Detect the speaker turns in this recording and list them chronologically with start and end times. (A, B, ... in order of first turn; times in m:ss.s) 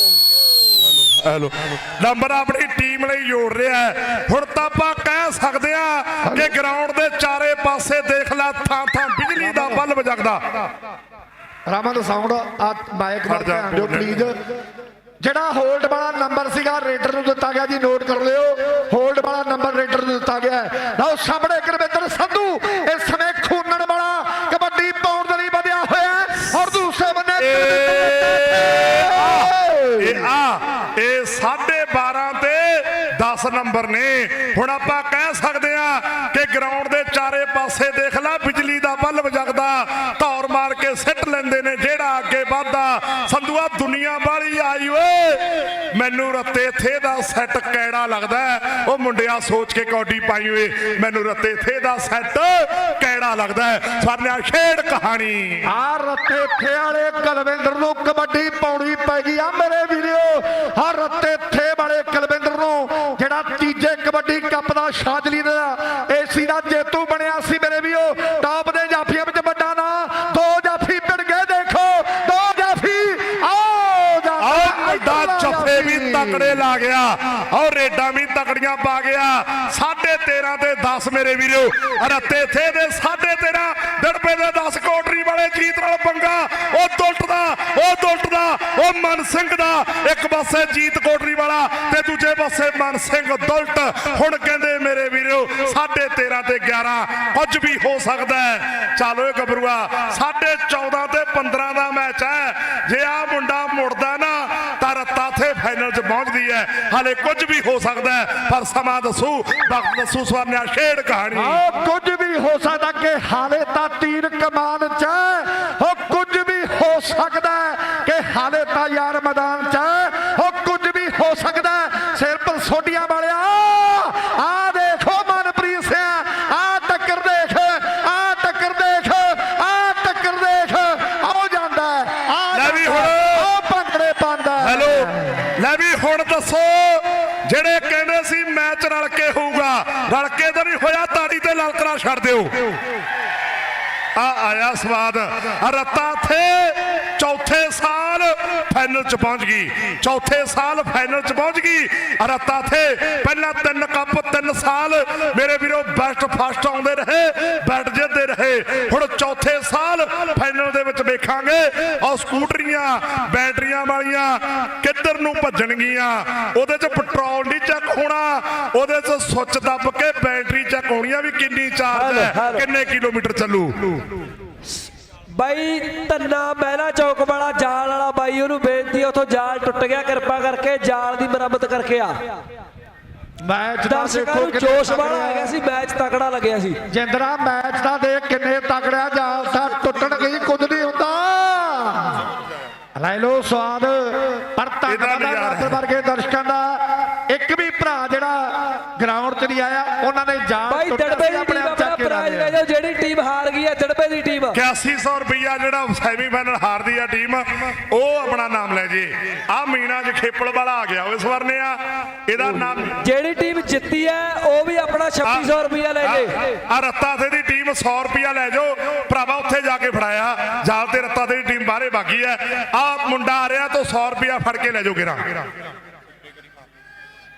0:01.0-0:10.7 A
0:06.2-0:06.5 B
0:11.7-0:14.4 B
0:13.3-0:14.3 A
0:15.2-0:30.2 B
0:27.4-0:55.6 A
0:55.7-1:16.6 B
1:14.4-1:51.6 A
1:51.4-2:15.4 B
2:12.5-2:13.5 A
2:14.6-2:22.8 A
2:24.2-2:54.1 A
2:51.9-2:52.7 C
2:55.4-3:02.3 C
3:03.4-3:05.5 B
3:03.9-3:06.8 C
3:06.9-3:12.2 B
3:13.0-3:22.6 B
3:14.9-3:15.8 A
3:20.7-3:24.6 C
3:24.5-3:33.0 A
3:32.4-3:36.5 C
3:35.2-3:35.5 A
3:36.0-3:45.5 A